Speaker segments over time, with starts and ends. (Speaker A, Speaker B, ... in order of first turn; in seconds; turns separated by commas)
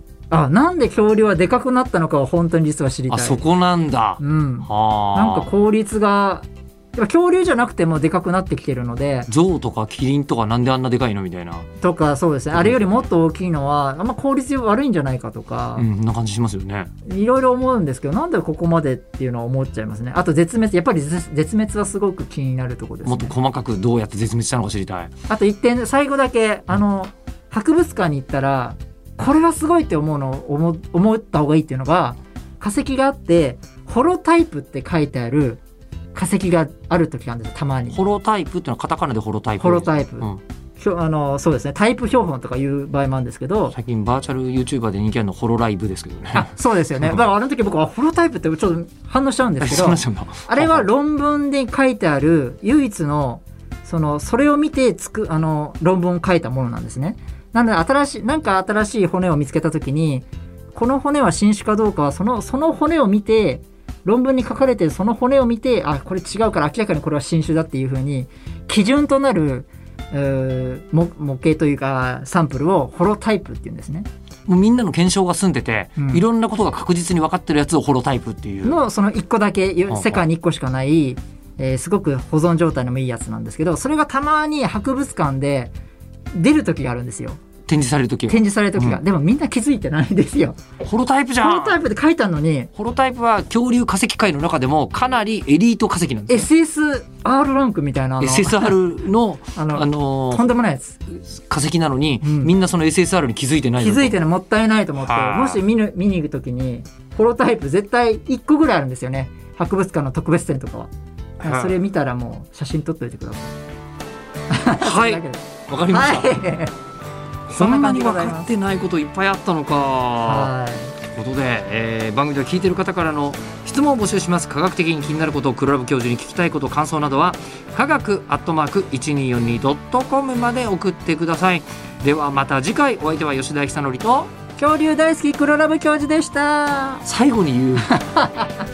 Speaker A: 0.3-3.4, Speaker B: 3.1-5.5, Speaker A: 4.2-9.3, Speaker B: 9.3-11.7, Speaker A: 11.8-15.8, Speaker B: 12.5-13.1, Speaker B: 15.8-16.9, Speaker A: 17.0-23.3, Speaker B: 23.0-25.1, Speaker A: 25.3-35.6, Speaker A: 36.1-38.0, Speaker B: 37.9-40.4, Speaker A: 39.6-43.7, Speaker B: 43.7-47.2, Speaker A: 46.3-74.1, Speaker B: 49.6-50.9, Speaker B: 74.5-78.8, Speaker A: 76.0-76.2, Speaker A: 78.6-85.7, Speaker B: 79.9-80.2, Speaker A: 86.3-87.4, Speaker B: 87.7-89.0, Speaker A: 88.3-90.6, Speaker B: 90.8-91.8, Speaker A: 91.4-92.7, Speaker B: 92.7-96.5, Speaker A: 96.3-98.8, Speaker B: 98.2-100.4, Speaker A: 99.5-101.0, Speaker B: 101.1-104.1, Speaker A: 102.2-102.5, Speaker A: 103.8-110.9, Speaker B: 105.0-105.6, Speaker B: 111.4-111.8, Speaker A: 111.4-113.5, Speaker A: 114.5-116.7, Speaker B: 114.8-116.3, Speaker B: 117.5-120.5, Speaker A: 117.5-118.5, Speaker A: 120.2-120.9, Speaker B: 121.0-134.3, Speaker A: 134.6-137.0, Speaker B: 137.0-138.0, Speaker A: 137.9-138.5